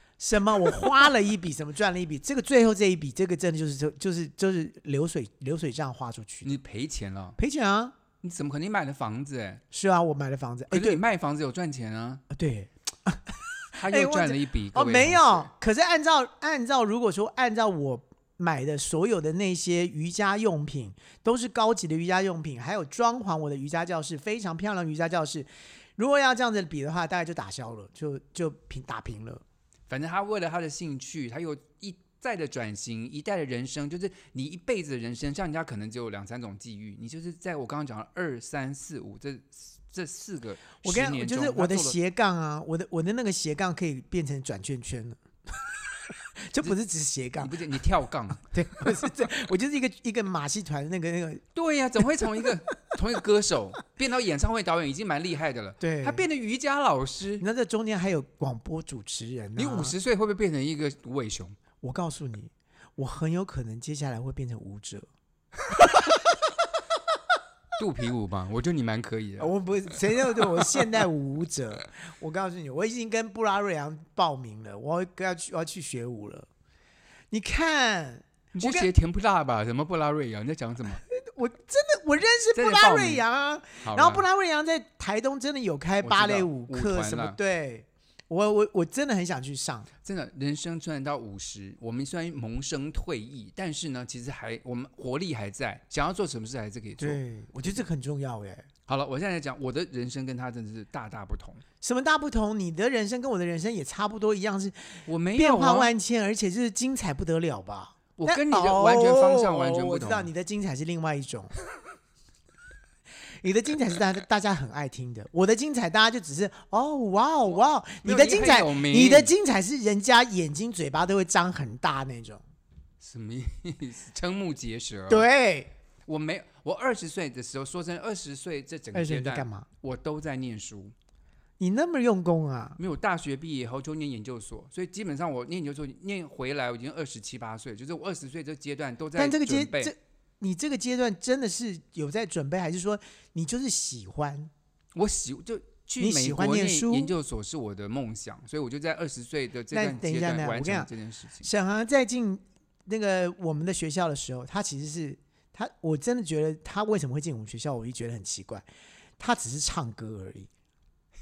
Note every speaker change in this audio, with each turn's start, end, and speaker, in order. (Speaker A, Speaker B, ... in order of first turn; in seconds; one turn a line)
Speaker A: 0.2-6.6
Speaker B: 6.4-7.4
Speaker A: 7.4-8.0
Speaker B: 8.2-9.6
Speaker A: 9.7-11.0
Speaker B: 10.7-12.2
Speaker A: 12.3-29.4
Speaker B: 13.7-15.5
Speaker B: 29.9-42.0
Speaker A: 40.8-45.6
Speaker A: 46.4-47.5
Speaker B: 47.4-48.5
Speaker A: 48.5-51.5
Speaker B: 51.5-57.5
Speaker A: 55.8-56.3
Speaker A: 57.4-59.9
Speaker B: 59.6-61.6
Speaker A: 61.8-65.1
Speaker A: 65.7-66.1
Speaker B: 67.8-69.5
Speaker A: 69.4-76.5
Speaker A: 77.3-78.9
Speaker B: 78.5-81.0
Speaker A: 81.2-89.9
Speaker B: 82.5-83.2
Speaker B: 83.8-84.3
Speaker B: 86.0-87.4
Speaker B: 90.0-97.8
Speaker A: 97.0-98.7
Speaker B: 98.9-101.6
Speaker A: 101.8-111.5
Speaker B: 105.1-105.9
Speaker B: 108.2-110.3
Speaker A: 113.4-122.4
Speaker B: 118.0-119.3
Speaker B: 123.0-125.3
Speaker A: 125.1-125.7
Speaker B: 126.1-130.9
Speaker A: 128.9-129.7
Speaker A: 131.6-132.8
Speaker B: 132.8-139.9
Speaker A: 139.2-144.5
Speaker B: 144.9-151.5
Speaker A: 146.0-147.1
Speaker A: 149.7-150.9
Speaker A: 151.4-158.7
Speaker A: 159.2-160.5